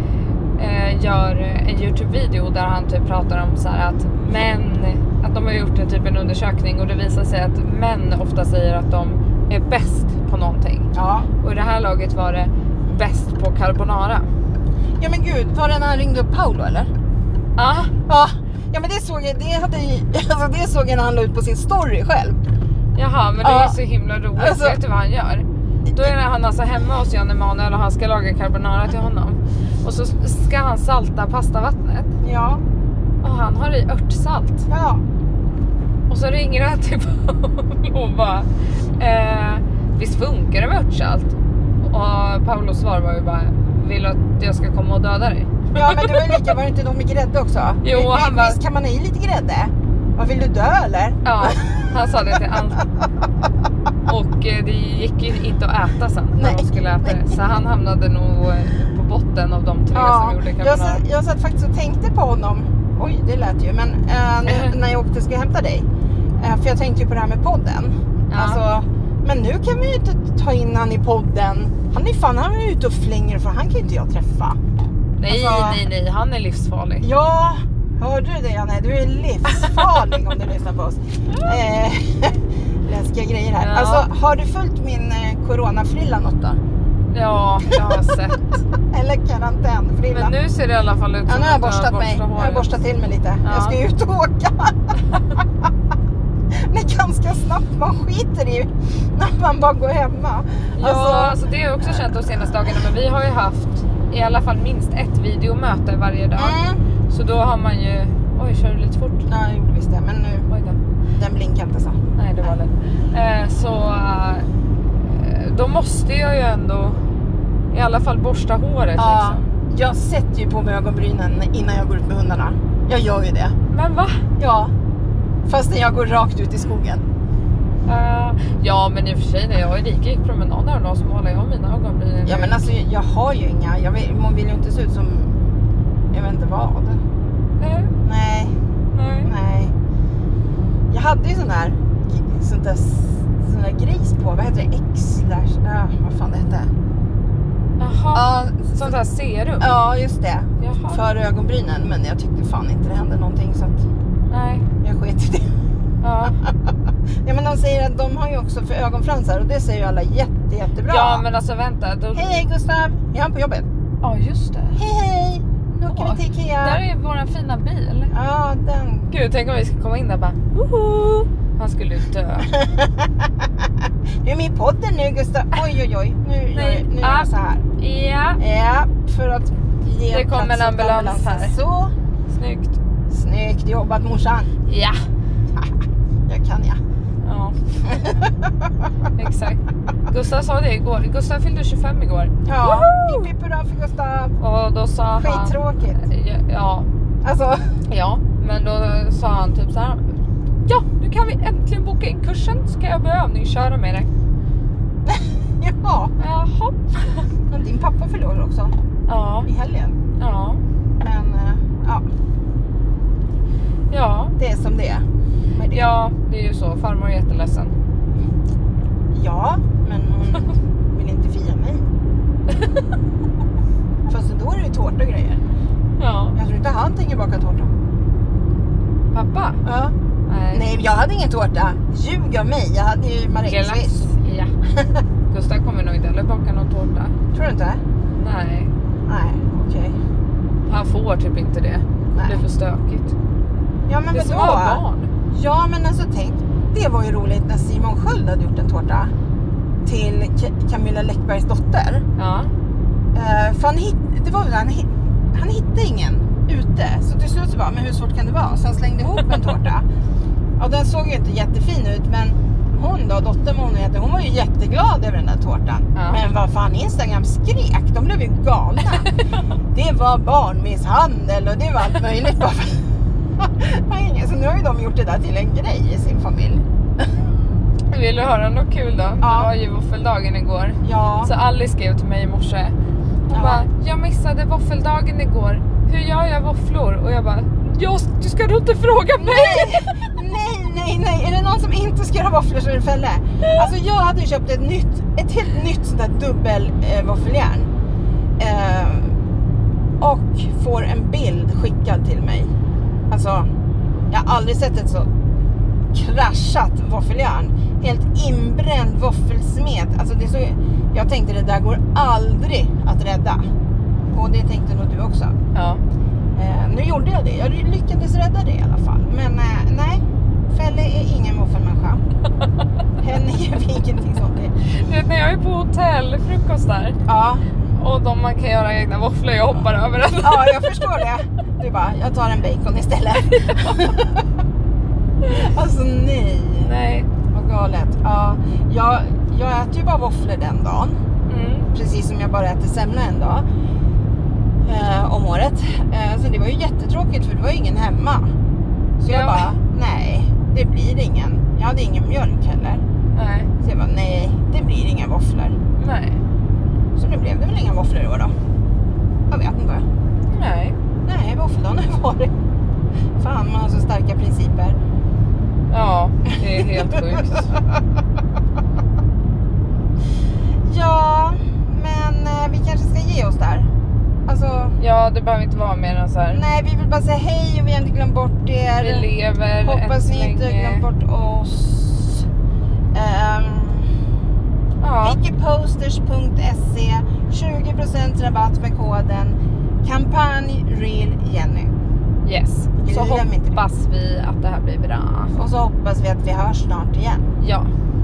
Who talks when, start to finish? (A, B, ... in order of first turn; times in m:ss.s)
0:00.6-0:10.9 A
0:10.9-0:11.3 B
0:11.4-0:14.3 A
0:15.0-0:16.9 B
0:17.6-0:17.9 A
0:18.1-0:22.4 B
0:22.9-0:32.1 A
0:23.4-0:23.8 B
0:24.4-0:24.8 B
0:32.2-0:32.6 B
0:33.2-0:34.7 A
0:34.7-0:35.0 B
0:36.1-0:46.4 A
0:45.7-0:52.4 B
0:47.8-0:48.6 A
0:51.2-0:52.8 A
0:54.1-1:01.0 A
0:56.4-0:57.2 B
0:59.9-1:05.8 B
1:04.5-1:04.7 A
1:06.4-1:14.6 B
1:08.3-1:08.6 A
1:15.2-1:17.1 A
1:15.3-1:15.8 B
1:17.0-1:26.6 B
1:19.6-1:20.0 A
1:23.6-1:24.1 A
1:27.1-1:28.6 A
1:28.9-1:30.3 B
1:30.1-1:32.7 A
1:31.3-1:35.4 B
1:33.4-1:33.8 A
1:36.5-1:42.8 B
1:40.8-1:46.6 A
1:46.4-1:46.8 B
1:47.1-1:49.3 A
1:49.3-1:50.5 B
1:50.5-1:50.8 A
1:51.2-1:52.6 B
1:52.2-1:57.0 A
1:57.7-1:59.4 A
1:59.0-2:03.6 B
2:03.7-2:04.3 A
2:04.4-2:04.7 B
2:05.5-2:07.0 B
2:07.8-2:12.6 A
2:12.2-2:15.4 B
2:16.1-2:17.0 B
2:17.6-2:17.9 A
2:18.0-2:18.5 B
2:18.9-2:19.3 A
2:19.2-2:19.7 B
2:20.9-2:26.7 B
2:27.8-2:29.7 A
2:28.1-2:29.0 B
2:29.6-2:33.8 B
2:30.6-2:31.0 A
2:34.3-2:34.7 A
2:34.8-2:35.4 B
2:36.0-2:36.4 A
2:37.2-2:41.2 B
2:40.8-2:42.5 A
2:42.1-2:43.6 B
2:44.0-2:44.8 A
2:44.7-2:46.8 B
2:45.8-2:48.1 A
2:48.1-2:49.1 B
2:49.1-2:52.5 A
2:52.5-2:53.3 B
2:54.2-2:57.6 B
2:56.5-2:58.4 A
2:58.4-3:01.9 B
3:00.1-3:01.5 A
3:02.3-3:02.8 A
3:03.1-3:04.5 B
3:04.6-3:05.0 A
3:06.3-3:06.8 B
3:07.2-3:07.6 A
3:07.8-3:08.5 B
3:09.2-3:13.3 A
3:12.4-3:14.4 B
3:14.4-3:16.9 A
3:15.2-3:16.0 B
3:17.2-3:17.8 B
3:17.9-3:20.1 A
3:20.6-3:24.1 A
3:25.0-3:26.1 B
3:26.2-3:27.3 A
3:27.5-3:28.7 B
3:29.1-3:29.5 A
3:29.4-3:30.0 B
3:30.2-3:30.6 A
3:31.0-3:32.0 B
3:33.9-3:34.3 A
3:34.4-3:35.0 B
3:35.5-3:35.9 B
3:35.7-3:37.7 A
3:39.1-3:41.9 B
3:44.1-3:45.4 B
3:46.0-3:46.4 A
3:46.3-3:47.7 B
3:49.1-3:49.6 A
3:49.6-3:49.9 B
3:50.3-3:50.6 A
3:50.5-3:54.0 B
3:53.5-3:54.5 A
3:55.3-3:57.1 A
3:57.3-3:57.8 B
3:58.2-3:58.7 A
3:59.1-4:00.0 B
4:00.7-4:03.1 A
4:02.1-4:02.4 B
4:03.9-4:09.1 B
4:04.1-4:05.1 A
4:09.8-4:12.0 B
4:12.2-4:12.5 A
4:13.1-4:19.8 B
4:20.6-4:29.1 B
4:26.0-4:26.2 A
4:29.7-4:36.6 B
4:37.9-4:42.7 A
4:39.2-4:39.5 B
4:40.8-4:41.3 B
4:43.3-4:50.1 A
4:43.3-4:43.6 B
4:49.2-4:57.7 B
4:58.4-4:59.1 B
5:00.0-5:02.5 B
5:03.1-5:03.5 B
5:04.1-5:05.1 B
5:05.9-5:13.4 B
5:14.1-5:15.3 B
5:15.5-5:15.8 A
5:16.4-5:22.0 B
5:23.0-5:24.5 B
5:24.6-5:27.0 A
5:27.0-5:27.4 B
5:27.7-5:30.7 A
5:30.2-5:34.2 B
5:33.3-5:33.9 A
5:35.2-5:36.7 B
5:36.6-5:37.1 A
5:37.3-5:41.0 B
5:41.3-5:41.7 A
5:41.7-5:43.4 B
5:44.6-5:48.3 B
5:49.0-5:52.8 B
5:49.1-5:49.5 A
5:53.1-5:53.5 A
5:53.6-5:55.6 B
5:55.8-5:56.2 A
5:57.0-5:58.3 B
5:59.3-5:59.8 B
6:00.3-6:00.8 A
6:01.0-6:02.3 B
6:03.2-6:04.8 B
6:05.7-6:07.5 A
6:06.3-6:07.6 B
6:10.6-6:13.7 B
6:14.3-6:14.8 B
6:14.8-6:16.4 A
6:16.3-6:19.1 B
6:18.8-6:20.8 A
6:19.6-6:22.2 B
6:22.9-6:23.9 B
6:24.8-6:25.2 A
6:25.0-6:31.7 B
6:32.2-6:35.4 A
6:32.8-6:33.6 B
6:35.3-6:37.3 B
6:37.4-6:37.7 A